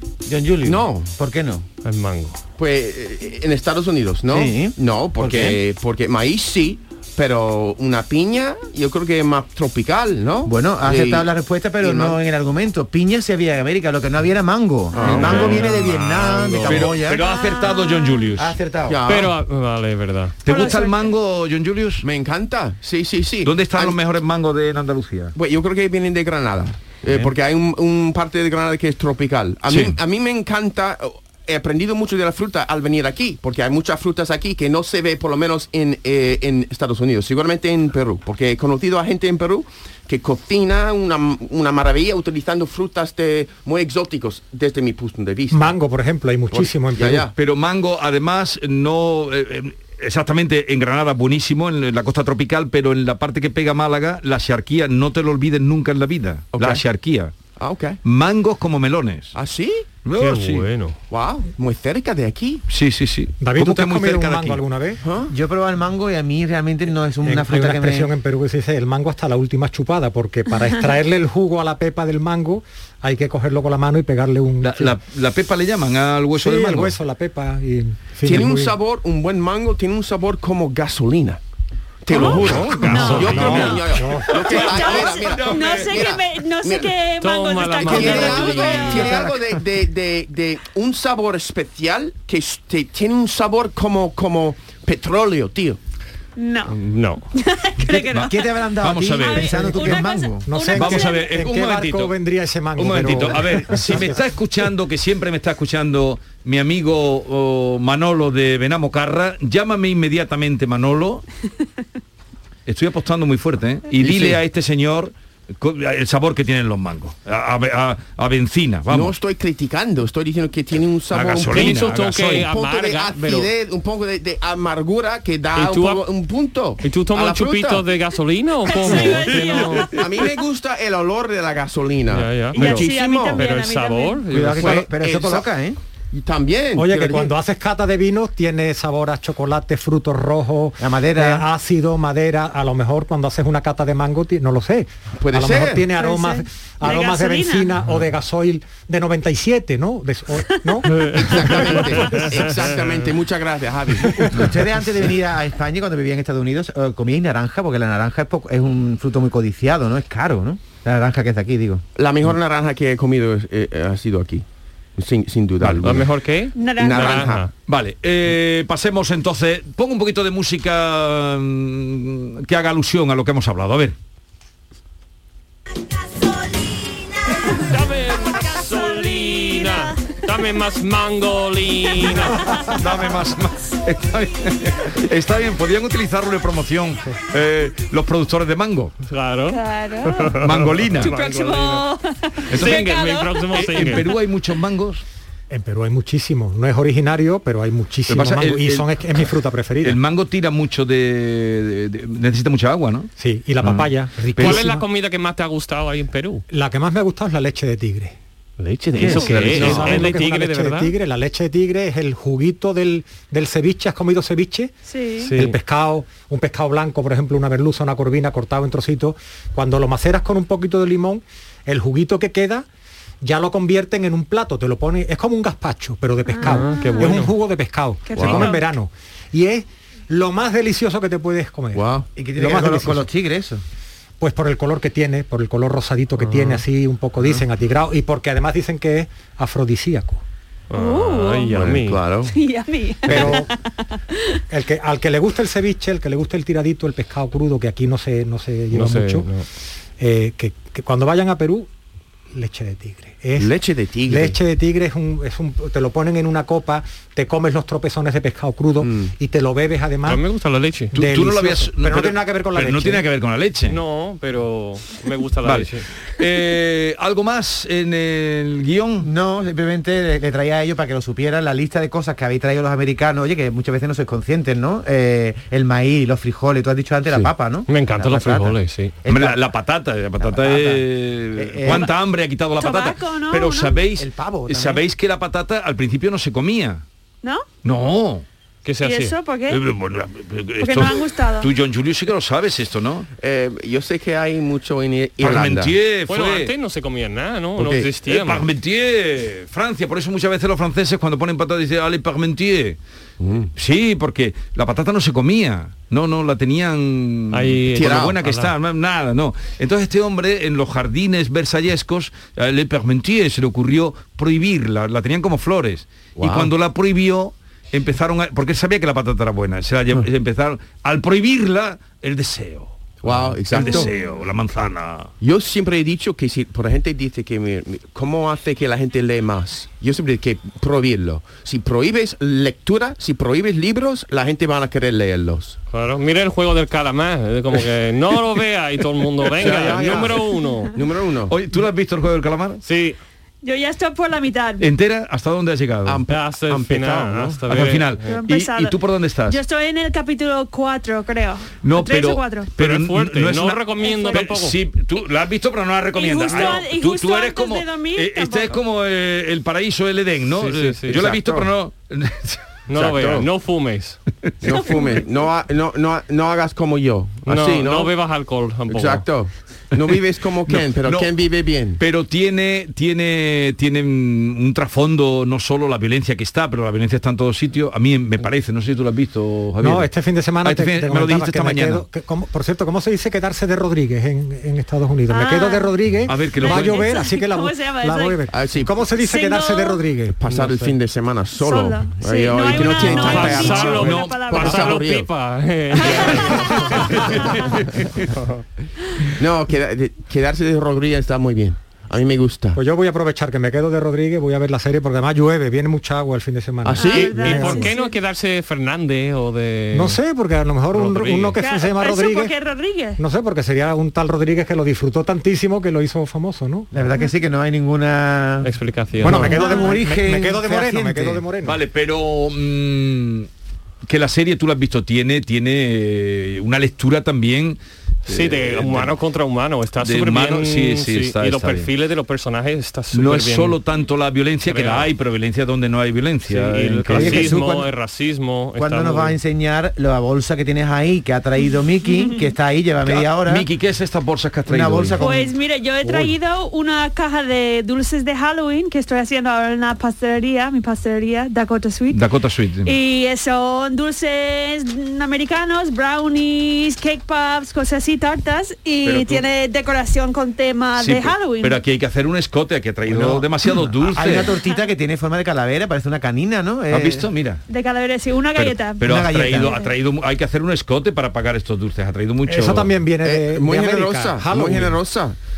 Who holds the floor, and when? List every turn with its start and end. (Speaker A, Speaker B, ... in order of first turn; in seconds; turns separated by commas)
Speaker A: 0.2-1.6, Speaker B: 0.6-1.1, Speaker C: 1.8-2.4, Speaker B: 2.6-11.2, Speaker A: 4.3-5.6, Speaker A: 10.5-17.3, Speaker B: 11.8-12.2, Speaker B: 14.9-15.6, Speaker C: 15.0-16.9, Speaker D: 15.2-18.5, Speaker E: 17.1-18.3, Speaker A: 18.4-19.0, Speaker B: 18.9-19.4, Speaker C: 19.1-20.4, Speaker D: 20.4-22.0, Speaker E: 20.5-21.1, Speaker B: 22.0-24.0, Speaker D: 23.4-25.3, Speaker B: 25.4-45.8, Speaker D: 29.7-30.0, Speaker F: 45.5-47.3, Speaker B: 46.5-47.3, Speaker D: 47.4-57.3, Speaker B: 56.5-56.8, Speaker B: 57.6-58.0, Speaker D: 58.0-59.3, Speaker B: 59.3-59.9, Speaker D: 60.0-60.7, Speaker C: 60.1-61.0, Speaker B: 61.1-62.6, Speaker D: 62.7-64.6, Speaker F: 63.4-65.0, Speaker B: 65.0-65.3, Speaker A: 65.3-68.1, Speaker F: 67.2-74.9, Speaker D: 74.6-76.9, Speaker F: 76.3-78.8, Speaker B: 78.2-81.4, Speaker B: 82.0-86.9, Speaker E: 82.1-89.2, Speaker C: 82.1-83.8, Speaker F: 82.6-84.6, Speaker D: 84.5-86.1, Speaker C: 87.2-89.2, Speaker B: 87.8-95.8, Speaker E: 96.4-96.8, Speaker C: 96.7-97.3, Speaker E: 97.3-101.3, Speaker A: 97.9-100.5, Speaker D: 98.1-99.9, Speaker F: 100.5-104.2, Speaker D: 100.7-102.1, Speaker D: 102.8-111.2, Speaker D: 112.7-119.2, Speaker B: 114.0-114.4, Speaker B: 118.9-127.9, Speaker D: 121.1-122.5, Speaker C: 121.5-123.5, Speaker C: 125.5-126.0, Speaker C: 126.8-130.0, Speaker E: 128.7-129.9, Speaker D: 129.3-130.0, Speaker B: 130.0-133.4, Speaker C: 132.1-134.9, Speaker E: 132.5-134.2, Speaker A: 134.3-135.8, Speaker B: 134.6-135.5, Speaker B: 136.1-137.3, Speaker F: 136.8-151.9, Speaker A: 140.8-141.5, Speaker B: 145.2-145.9, Speaker E: 146.0-147.7, Speaker C: 150.9-152.8, Speaker B: 151.1-154.5, Speaker A: 154.3-161.8, Speaker B: 162.0-164.4, Speaker B: 165.0-166.1, Speaker D: 165.6-165.9, Speaker C: 165.8-167.5, Speaker E: 166.5-167.3, Speaker B: 166.8-167.5, Speaker D: 167.7-173.9, Speaker E: 177.4-177.7, Speaker C: 177.5-182.6, Speaker E: 178.3-180.1, Speaker E: 182.3-182.6, Speaker D: 182.7-188.9, Speaker C: 189.0-191.9, Speaker E: 189.5-190.4, Speaker D: 190.4-191.1, Speaker E: 190.9-194.0, Speaker C: 192.5-194.2, Speaker D: 192.5-192.9, Speaker D: 193.5-195.0, Speaker F: 195.5-200.0, Speaker D: 198.1-203.1, Speaker F: 203.2-204.8, Speaker D: 203.6-204.7, Speaker C: 204.4-206.4, Speaker F: 206.5-208.2, Speaker C: 208.6-210.9, Speaker F: 209.0-214.7, Speaker D: 209.0-210.0, Speaker E: 214.9-215.3, Speaker C: 215.2-215.6, Speaker F: 215.3-222.7, Speaker F: 223.2-231.8, Speaker E: 226.3-227.2, Speaker C: 226.4-227.3, Speaker E: 228.1-228.6, Speaker B: 228.1-228.5, Speaker B: 231.8-232.1, Speaker A: 232.2-233.6, Speaker F: 232.4-233.1, Speaker F: 234.2-240.2, Speaker C: 236.2-236.6, Speaker C: 240.7-242.0, Speaker E: 240.7-241.5, Speaker B: 241.5-242.3, Speaker E: 242.3-244.4, Speaker F: 243.1-243.5, Speaker F: 244.5-249.3, Speaker C: 248.7-249.5, Speaker F: 250.0-251.7, Speaker F: 252.3-253.5, Speaker B: 253.4-254.4, Speaker F: 254.1-260.2, Speaker B: 258.8-259.1, Speaker C: 260.1-260.9, Speaker F: 260.9-263.0, Speaker D: 260.9-263.8, Speaker C: 263.6-265.9, Speaker D: 265.4-269.1, Speaker A: 269.0-279.4, Speaker C: 277.7-279.0, Speaker D: 279.1-286.8, Speaker A: 280.2-281.9, Speaker E: 281.7-281.9, Speaker E: 282.6-283.8, Speaker A: 284.0-284.8, Speaker D: 287.6-288.2, Speaker C: 288.6-289.1, Speaker E: 288.8-289.6, Speaker D: 289.5-293.1, Speaker E: 290.6-291.5, Speaker B: 293.2-295.8, Speaker D: 295.2-296.5, Speaker C: 296.0-298.5, Speaker B: 297.6-297.9, Speaker D: 298.1-302.8, Speaker B: 303.2-303.5, Speaker D: 303.6-325.1, Speaker C: 307.3-308.5, Speaker B: 307.7-308.2, Speaker B: 316.2-316.5, Speaker B: 323.0-323.9, Speaker E: 323.7-324.1, Speaker B: 325.2-335.6, Speaker C: 335.7-340.8, Speaker B: 339.3-341.4, Speaker D: 341.3-342.6, Speaker C: 342.6-343.0, Speaker E: 343.4-344.7, Speaker D: 344.6-346.1, Speaker B: 345.9-347.4, Speaker C: 346.1-348.2, Speaker D: 347.4-349.4, Speaker E: 348.0-348.8, Speaker E: 349.3-352.5, Speaker D: 351.6-362.4, Speaker C: 352.6-354.6, Speaker E: 353.8-354.3, Speaker E: 355.9-358.6, Speaker C: 356.3-356.6, Speaker C: 360.3-361.1, Speaker B: 360.9-361.5, Speaker C: 362.7-364.0, Speaker B: 362.8-363.3, Speaker B: 364.4-367.9, Speaker E: 364.4-365.1, Speaker C: 367.2-369.1, Speaker B: 368.7-371.8, Speaker D: 370.5-371.1, Speaker D: 371.8-379.9, Speaker F: 379.6-390.7, Speaker D: 380.4-381.9, Speaker E: 385.1-385.7, Speaker D: 386.1-386.9, Speaker E: 386.4-388.2, Speaker B: 388.3-388.8, Speaker E: 389.0-389.8, Speaker B: 390.2-395.1, Speaker E: 391.4-394.8, Speaker C: 392.5-397.2, Speaker D: 393.8-394.2, Speaker E: 395.7-397.5, Speaker B: 395.8-396.3, Speaker D: 396.4-398.0, Speaker B: 399.2-402.6, Speaker F: 402.6-407.7, Speaker B: 406.6-407.4, Speaker E: 406.8-408.0, Speaker C: 406.9-410.0, Speaker F: 409.7-412.3, Speaker C: 410.7-411.4, Speaker E: 411.4-413.0, Speaker F: 413.0-416.7, Speaker A: 416.7-418.5, Speaker C: 418.4-419.5, Speaker A: 419.0-421.2, Speaker F: 419.0-421.6, Speaker E: 419.3-419.8, Speaker D: 421.4-423.3, Speaker D: 423.9-429.0, Speaker C: 428.1-433.6, Speaker D: 429.8-431.7, Speaker D: 432.9-437.4, Speaker C: 434.4-434.9, Speaker C: 436.2-439.2, Speaker A: 436.9-437.7, Speaker A: 438.6-443.4, Speaker D: 442.9-445.0, Speaker A: 444.5-445.3, Speaker E: 445.0-452.0, Speaker D: 451.9-452.7, Speaker E: 452.6-461.6, Speaker D: 458.8-459.2, Speaker D: 460.7-464.3, Speaker A: 462.9-463.2, Speaker A: 463.8-467.1, Speaker D: 466.7-467.4, Speaker E: 467.5-469.7, Speaker D: 468.4-472.8, Speaker A: 468.8-469.6, Speaker F: 472.2-474.8, Speaker B: 473.0-475.1